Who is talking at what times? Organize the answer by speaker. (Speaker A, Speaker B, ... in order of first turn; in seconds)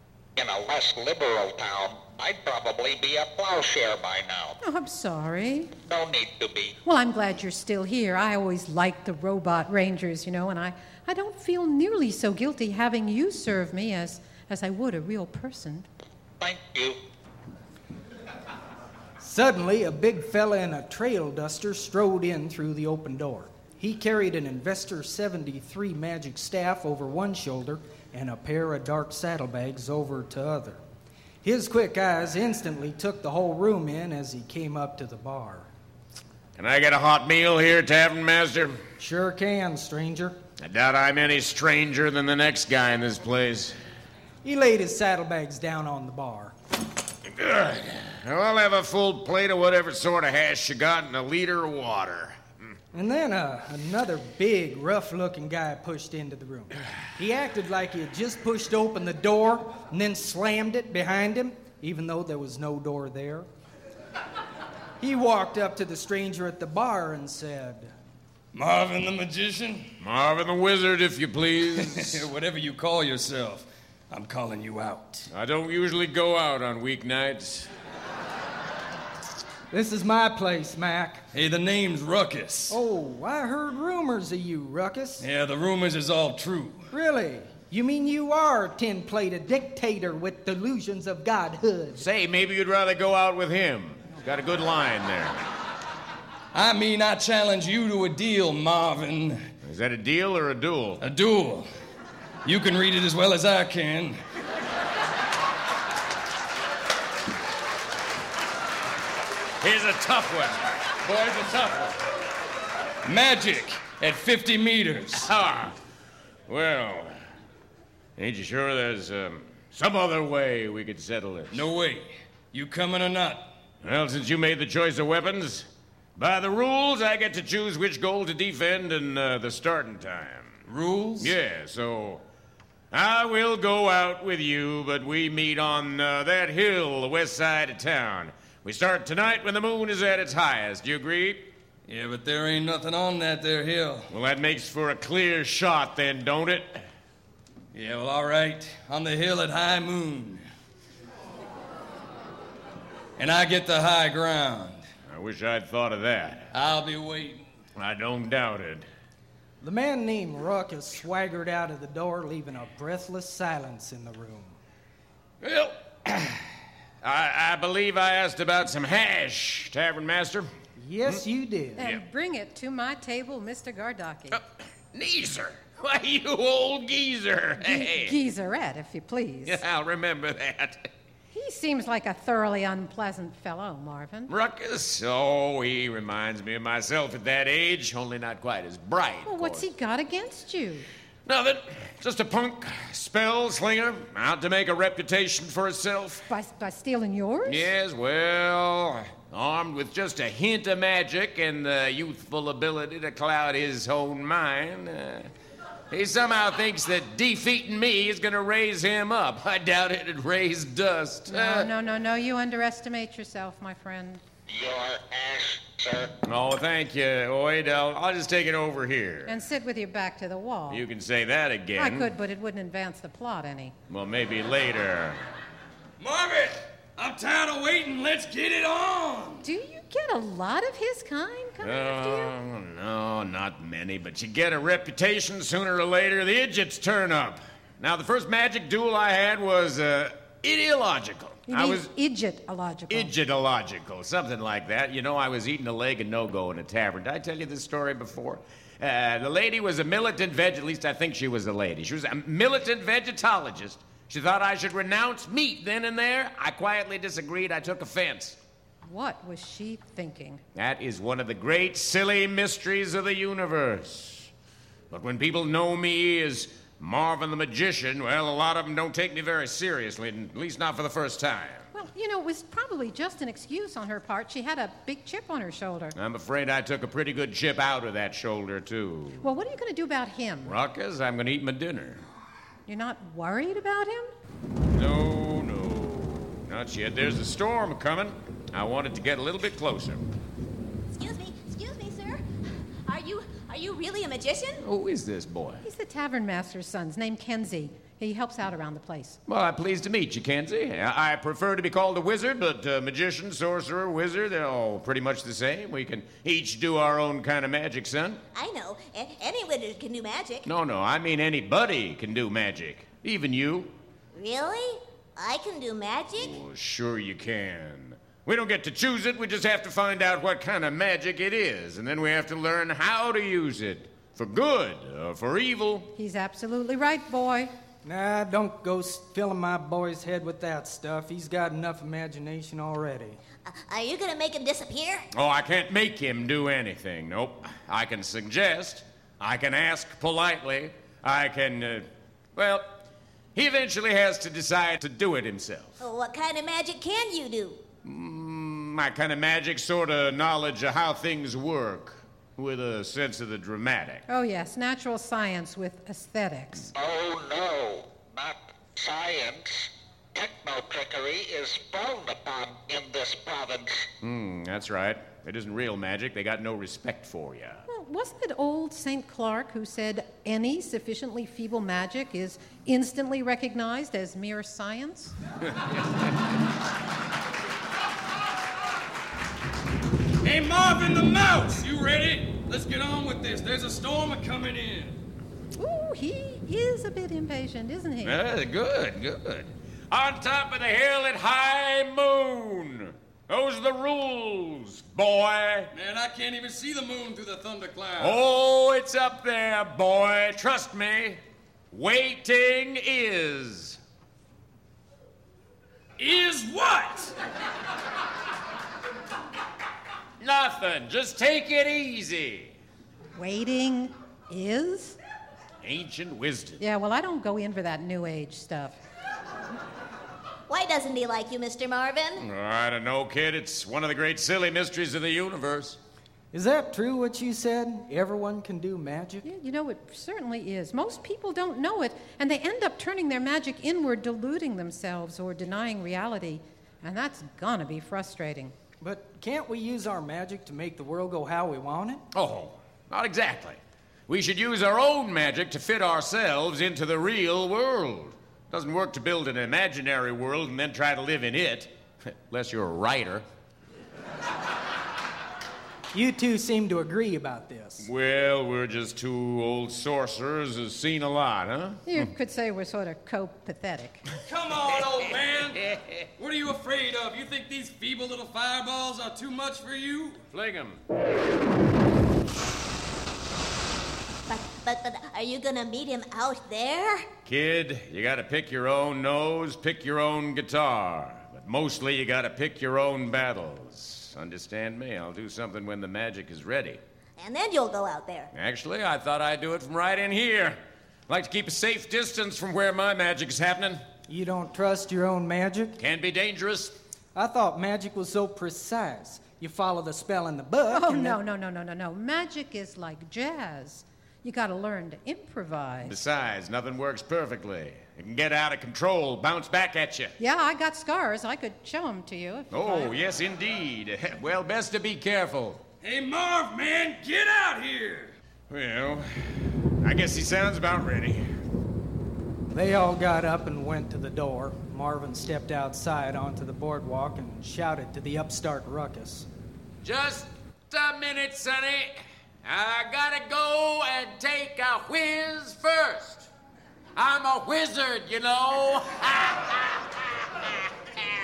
Speaker A: 0.3-4.6, 5.8-6.7, 16.4-17.0, 214.5-216.1, 356.7-363.9
Speaker B: 4.6-5.7, 6.8-15.9, 171.8-174.4, 177.6-179.6, 181.3-184.3, 189.2-190.8, 196.3-197.7, 211.3-214.2, 219.2-220.8, 221.8-223.7, 229.4-232.3, 241.5-243.1, 258.8-260.4, 271.7-275.9, 279.2-280.6, 282.7-284.1, 295.6-299.2, 325.9-327.5, 354.1-356.7, 367.7-375.1, 385.6-388.2, 413.1-415.0, 416.6-418.8, 429.2-438.5, 461.9-464.1, 500.7-506.0, 510.2-512.9
Speaker C: 19.2-30.8, 31.4-35.7, 39.0-40.4, 44.4-46.5, 52.9-63.5, 65.0-67.9, 79.7-81.2, 82.7-85.2, 86.9-92.0, 159.6-164.6, 170.8-171.8, 327.8-333.2, 426.3-429.2, 438.8-442.0, 455.9-457.9, 494.1-495.8, 497.1-501.2, 522.5-529.3
Speaker D: 36.5-38.8, 40.6-43.8, 47.2-52.7, 70.0-72.2, 75.3-77.7, 92.0-95.4, 99.6-101.0, 109.6-112.0, 115.2-115.8, 116.5-117.2, 118.2-121.7, 123.8-130.6, 131.2-132.2, 132.9-141.5, 144.1-146.8, 155.1-156.5, 157.8-158.8, 165.4-166.4, 167.0-170.5, 174.3-178.2, 179.4-180.9, 184.3-189.7, 191.2-196.3, 197.4-205.3, 205.9-211.7, 216.2-219.4, 220.7-222.1, 223.9-225.2, 231.6-241.9, 242.9-258.4, 260.5-264.3, 264.9-271.7, 275.9-279.2, 280.4-282.0, 284.7-290.0, 294.6-295.6, 299.3-308.2, 310.4-313.7, 316.2-325.9, 335.1-342.8, 343.3-345.8, 347.8-354.0, 364.0-367.6, 388.0-395.7, 398.0-401.2, 401.7-403.8, 410.2-412.6, 415.6-416.6, 422.2-425.8, 442.1-453.2, 457.8-462.1, 470.3-470.8, 477.2-486.8, 488.3-493.8, 495.8-496.8, 505.8-510.2, 512.5-515.6, 518.5-521.2, 529.8-536.3, 537.0-540.3
Speaker E: 68.5-69.9, 71.8-75.3, 81.3-82.8, 85.2-86.9, 96.5-99.5, 101.0-101.7, 102.4-104.2, 113.0-115.3, 121.5-123.5, 130.7-131.3, 141.9-144.1, 147.7-150.4, 153.2-154.8, 156.5-157.4, 226.0-229.5, 380.2-385.0, 395.7-398.2, 406.0-407.1, 464.2-465.6, 466.2-470.2, 515.8-518.2
Speaker F: 290.9-292.2, 292.9-294.6, 308.3-310.5, 314.1-316.4, 333.4-335.1, 345.8-347.6, 420.5-422.2, 474.3-477.1, 487.2-488.3